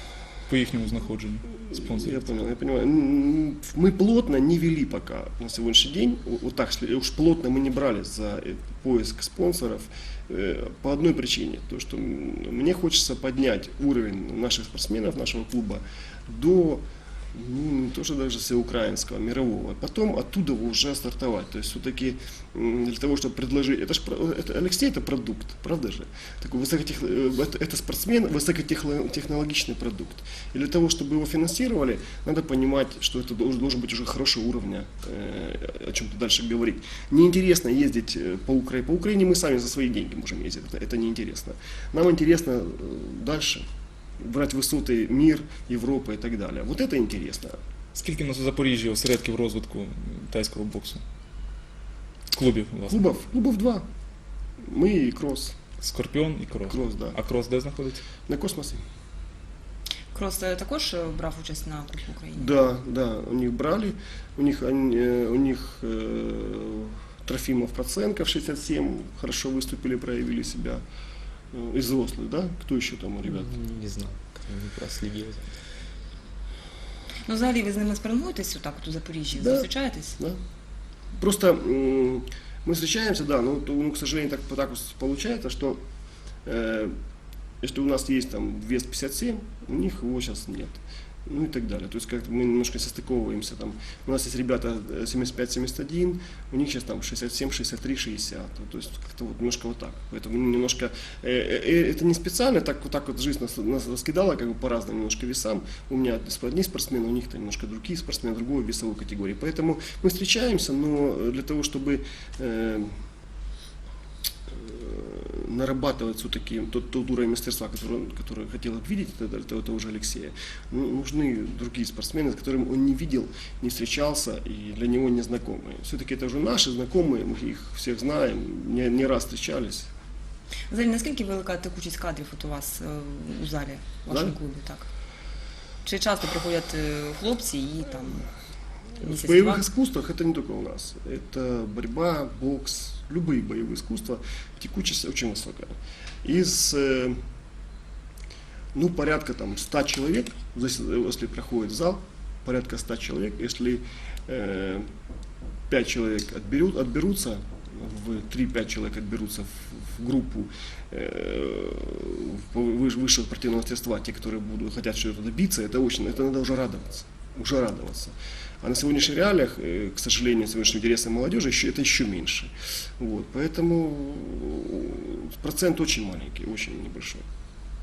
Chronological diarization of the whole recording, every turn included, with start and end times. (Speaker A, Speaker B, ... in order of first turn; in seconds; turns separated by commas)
Speaker A: 0.5-2.2, Speaker B: 1.7-43.6, Speaker B: 44.2-47.6, Speaker A: 48.0-51.0, Speaker A: 52.3-53.0, Speaker B: 52.9-53.9, Speaker B: 54.6-55.6, Speaker A: 55.8-58.0, Speaker B: 56.7-57.2, Speaker B: 58.3-58.8, Speaker C: 60.1-62.6, Speaker B: 62.4-70.8, Speaker B: 71.5-73.5, Speaker D: 73.3-75.5, Speaker C: 77.3-80.2, Speaker B: 79.4-80.4, Speaker B: 81.2-85.8, Speaker B: 86.5-86.9, Speaker B: 87.6-113.0, Speaker B: 114.5-129.9, Speaker C: 130.7-134.9, Speaker C: 135.8-138.3, Speaker C: 139.0-139.7, Speaker B: 139.0-147.2, Speaker B: 148.8-154.9, Speaker B: 155.7-177.2